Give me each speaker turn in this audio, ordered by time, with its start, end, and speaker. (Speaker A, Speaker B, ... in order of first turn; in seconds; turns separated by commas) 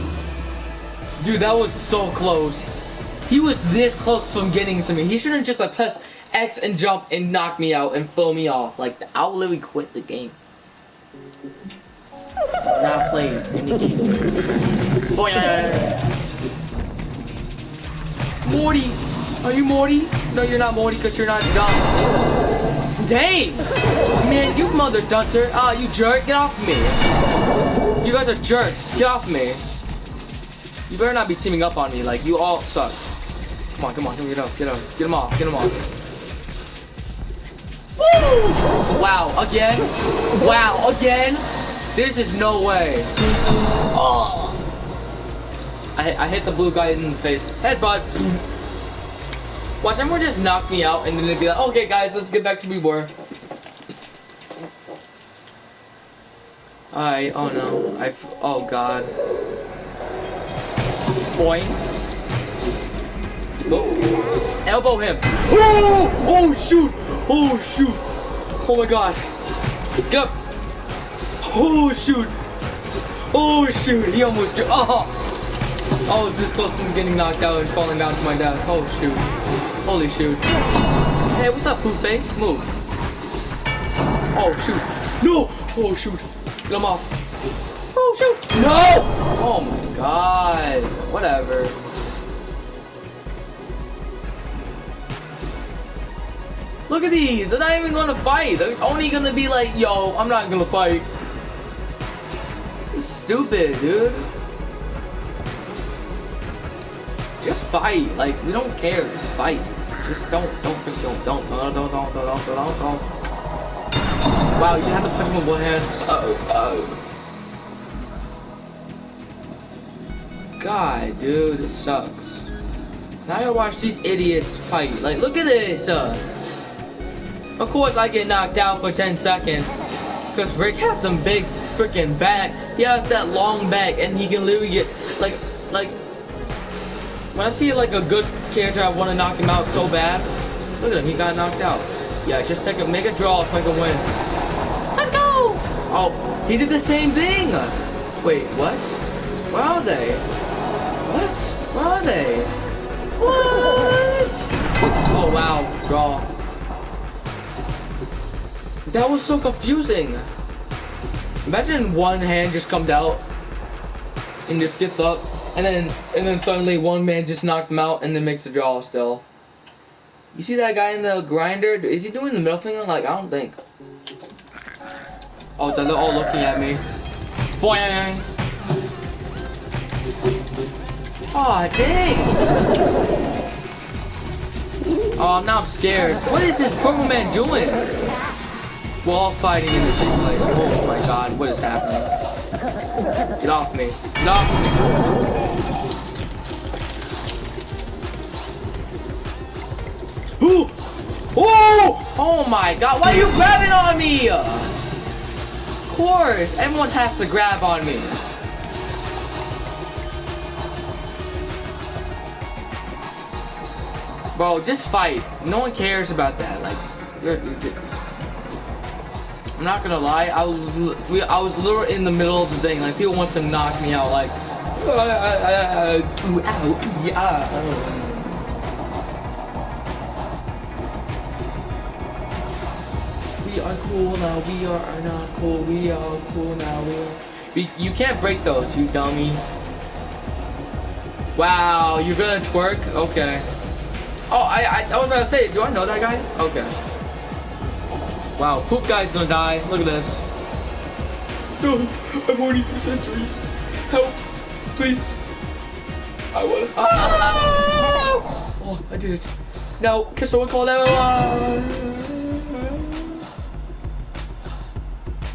Speaker A: 1.2-2.7, Speaker A: 3.3-10.4, Speaker A: 12.6-14.5, Speaker A: 15.1-16.0, Speaker A: 18.4-21.9, Speaker A: 23.0-27.0, Speaker A: 28.0-29.6, Speaker A: 30.9-33.0, Speaker A: 33.7-35.8, Speaker A: 38.0-43.1, Speaker A: 43.9-44.6, Speaker A: 46.0-48.4, Speaker A: 49.8-53.1, Speaker A: 56.9-59.1, Speaker A: 61.3-61.8, Speaker A: 63.6-64.1, Speaker A: 64.6-68.0, Speaker A: 68.6-69.2, Speaker A: 70.0-70.4, Speaker A: 71.4-72.3, Speaker A: 73.3-75.2, Speaker A: 76.0-79.3, Speaker A: 79.8-80.5, Speaker A: 81.3-82.8, Speaker A: 84.3-87.1, Speaker A: 87.9-91.8, Speaker A: 96.9-101.1, Speaker A: 102.9-104.3, Speaker A: 107.4-113.1, Speaker A: 114.5-117.0, Speaker A: 120.6-122.5, Speaker A: 123.2-126.2, Speaker A: 127.6-136.0, Speaker A: 137.3-144.1, Speaker A: 144.9-150.3, Speaker A: 151.0-152.5, Speaker A: 153.2-154.5, Speaker A: 155.1-156.3, Speaker A: 158.9-160.3, Speaker A: 161.4-163.2, Speaker A: 164.5-169.2, Speaker A: 170.3-173.6, Speaker A: 175.6-176.8, Speaker A: 177.6-178.3, Speaker A: 181.3-182.4, Speaker A: 185.2-187.9, Speaker A: 189.0-192.1, Speaker A: 193.4-194.6, Speaker A: 200.4-204.7, Speaker A: 205.9-208.2, Speaker A: 214.3-217.8, Speaker A: 219.6-228.5, Speaker A: 233.4-239.4, Speaker A: 241.3-243.5, Speaker A: 244.3-246.8, Speaker A: 248.4-250.2, Speaker A: 251.6-254.2, Speaker A: 254.8-255.2, Speaker A: 256.3-263.2